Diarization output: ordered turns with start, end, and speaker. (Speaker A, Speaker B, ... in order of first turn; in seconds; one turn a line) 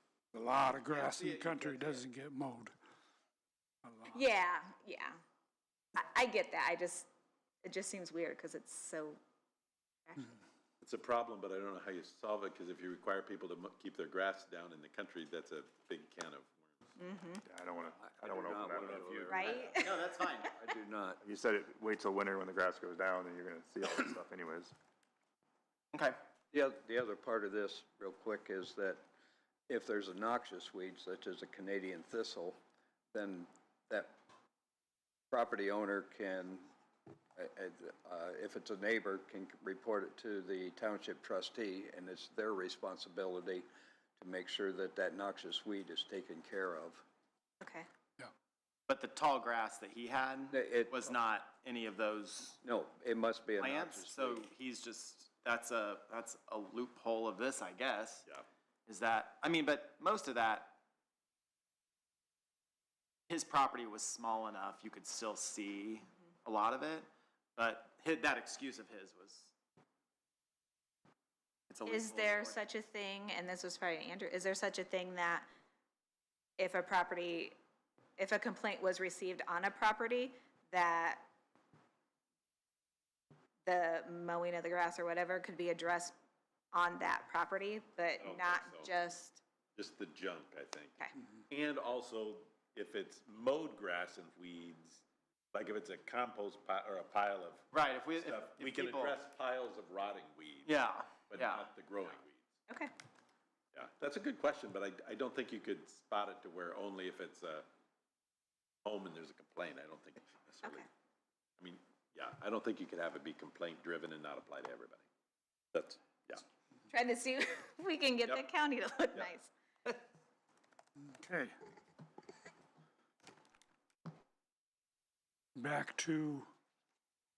Speaker A: 0.3-2.7
Speaker B: 0.9-2.0
Speaker A: 3.8-4.2
Speaker C: 4.1-5.2
Speaker C: 5.9-7.1
Speaker C: 7.6-9.2
Speaker D: 10.8-16.8
Speaker C: 17.0-17.4
Speaker E: 17.4-19.6
Speaker F: 18.0-21.2
Speaker C: 19.3-20.1
Speaker B: 19.6-20.5
Speaker E: 21.2-24.7
Speaker B: 25.9-26.2
Speaker F: 26.5-29.0
Speaker F: 29.7-32.5
Speaker F: 33.1-34.2
Speaker F: 35.3-36.7
Speaker F: 37.4-43.6
Speaker F: 44.2-47.0
Speaker C: 47.6-47.9
Speaker B: 48.9-52.6
Speaker F: 50.5-51.1
Speaker F: 52.6-54.5
Speaker B: 53.6-58.3
Speaker B: 58.9-60.8
Speaker B: 63.3-69.5
Speaker B: 71.7-72.6
Speaker C: 71.8-75.5
Speaker C: 76.6-77.5
Speaker C: 78.2-81.3
Speaker C: 83.7-86.2
Speaker C: 86.7-89.4
Speaker D: 88.2-88.9
Speaker D: 89.8-91.0
Speaker D: 91.5-102.4
Speaker B: 97.7-99.2
Speaker B: 100.7-101.6
Speaker D: 103.7-107.7
Speaker D: 108.8-110.9
Speaker D: 111.6-115.0
Speaker D: 115.7-116.4
Speaker C: 116.9-119.5
Speaker A: 121.1-121.6
Speaker A: 125.5-126.5